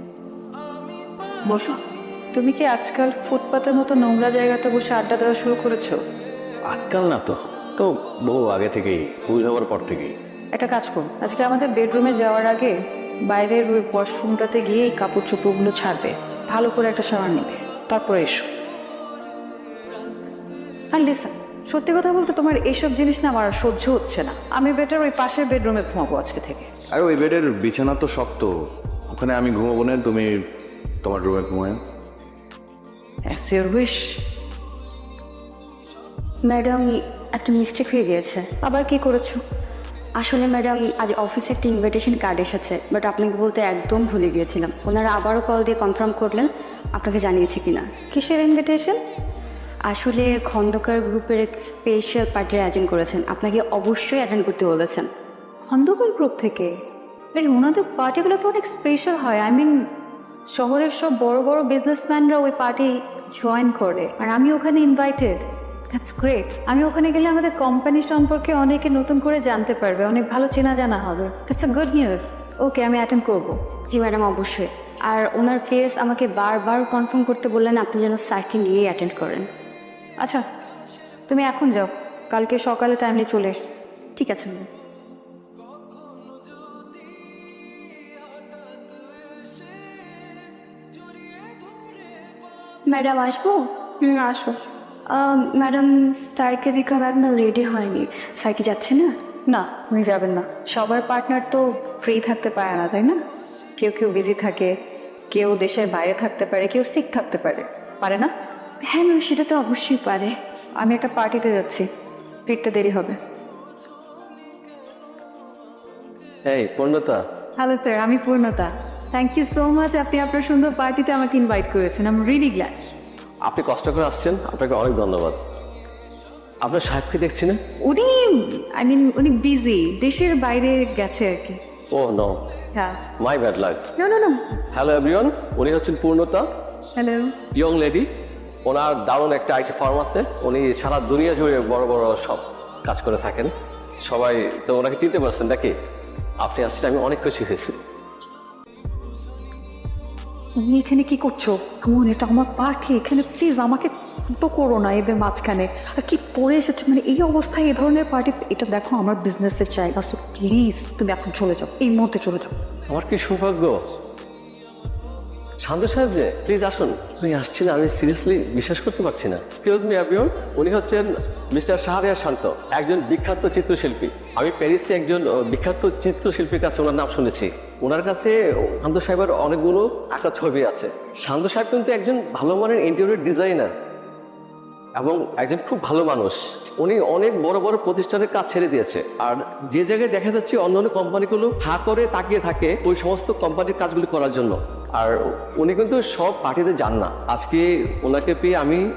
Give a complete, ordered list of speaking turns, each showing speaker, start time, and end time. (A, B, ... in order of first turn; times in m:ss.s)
0:01.5-0:01.8 A
0:02.3-0:06.0 A
0:06.7-0:10.1 B
0:10.5-0:18.5 A
0:20.9-0:26.7 A
0:26.9-0:28.5 B
0:29.1-0:30.3 B
0:31.0-0:31.8 B
0:33.2-0:34.0 A
0:36.4-0:38.5 C
0:38.6-0:39.4 A
0:40.2-0:47.9 C
0:48.1-0:49.0 A
0:49.9-0:55.1 C
0:55.7-0:56.7 A
0:57.3-0:59.8 A
1:00.5-1:13.6 A
1:13.9-1:19.5 C
1:21.3-1:23.6 A
1:24.2-1:24.6 A
1:32.9-1:39.1 C
1:39.5-1:43.2 A
1:43.8-1:44.7 A
1:45.3-1:48.3 A
1:48.8-1:50.3 C
1:50.8-1:51.9 A
1:52.4-1:53.2 A
1:56.4-1:57.2 D
1:57.6-2:02.8 A
2:03.4-2:05.4 D
2:06.6-2:07.6 D
2:07.8-2:11.6 A
2:11.9-2:12.4 D
2:12.7-2:13.0 A
2:13.2-2:13.8 D
2:14.0-2:14.5 A
2:14.7-2:16.5 D
2:17.0-2:17.3 A
2:17.5-2:18.1 D
2:18.6-2:23.5 D
2:24.0-2:25.7 D
2:26.4-2:27.8 D
2:30.6-2:42.5 A
2:42.9-2:43.8 D
2:45.6-3:03.7 D
3:05.0-3:18.8 D